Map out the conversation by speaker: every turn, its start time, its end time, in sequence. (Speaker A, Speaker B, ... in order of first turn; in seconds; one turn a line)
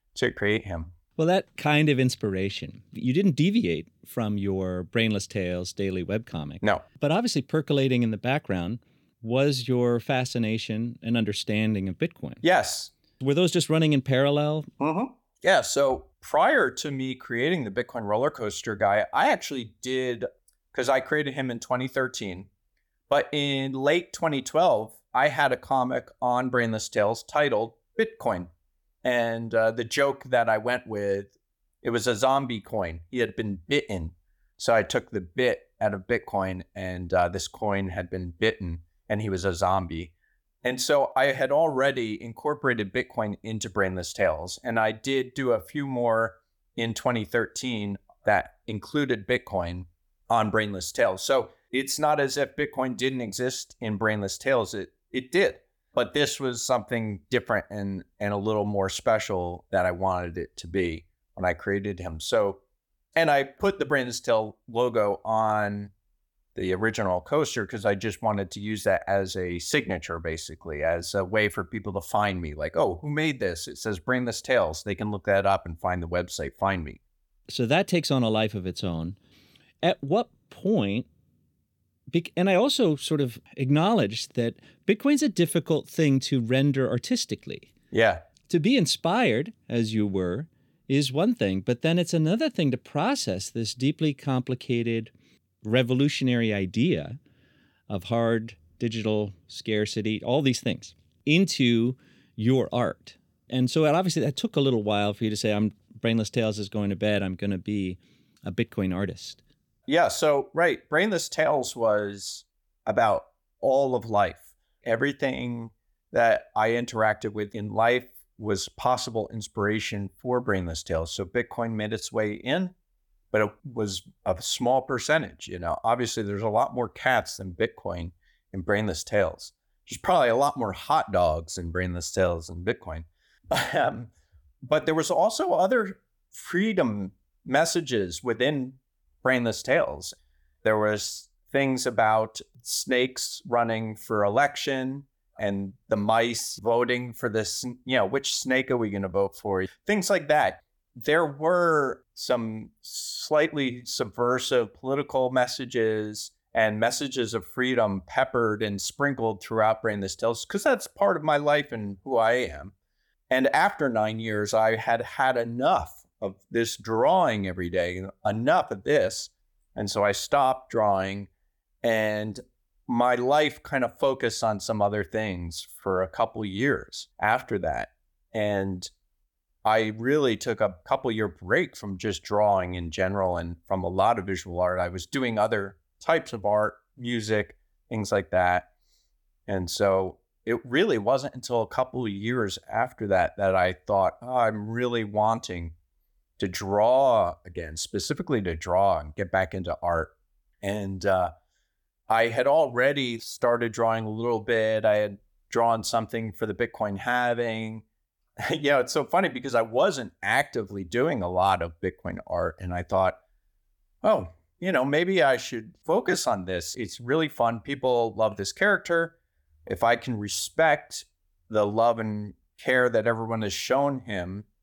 Speaker A: 0.1-0.9
Speaker B: 1.2-12.4
Speaker A: 12.4-12.9
Speaker B: 13.2-14.7
Speaker A: 14.8-22.5
Speaker A: 23.1-28.5
Speaker A: 29.0-31.3
Speaker A: 31.8-40.1
Speaker A: 40.6-62.6
Speaker A: 63.2-65.9
Speaker A: 66.5-77.0
Speaker B: 77.5-79.2
Speaker B: 79.8-81.1
Speaker B: 82.1-87.7
Speaker A: 87.9-88.2
Speaker B: 88.5-95.1
Speaker B: 95.6-97.2
Speaker B: 97.9-109.4
Speaker A: 109.9-122.7
Speaker A: 123.3-134.1
Speaker A: 134.6-162.7
Speaker A: 163.3-171.3
Speaker A: 171.8-178.9
Speaker A: 179.7-188.7
Speaker A: 189.5-195.7
Speaker A: 196.4-201.3
Speaker A: 202.1-207.8
Speaker A: 208.5-213.2
Speaker A: 214.0-224.5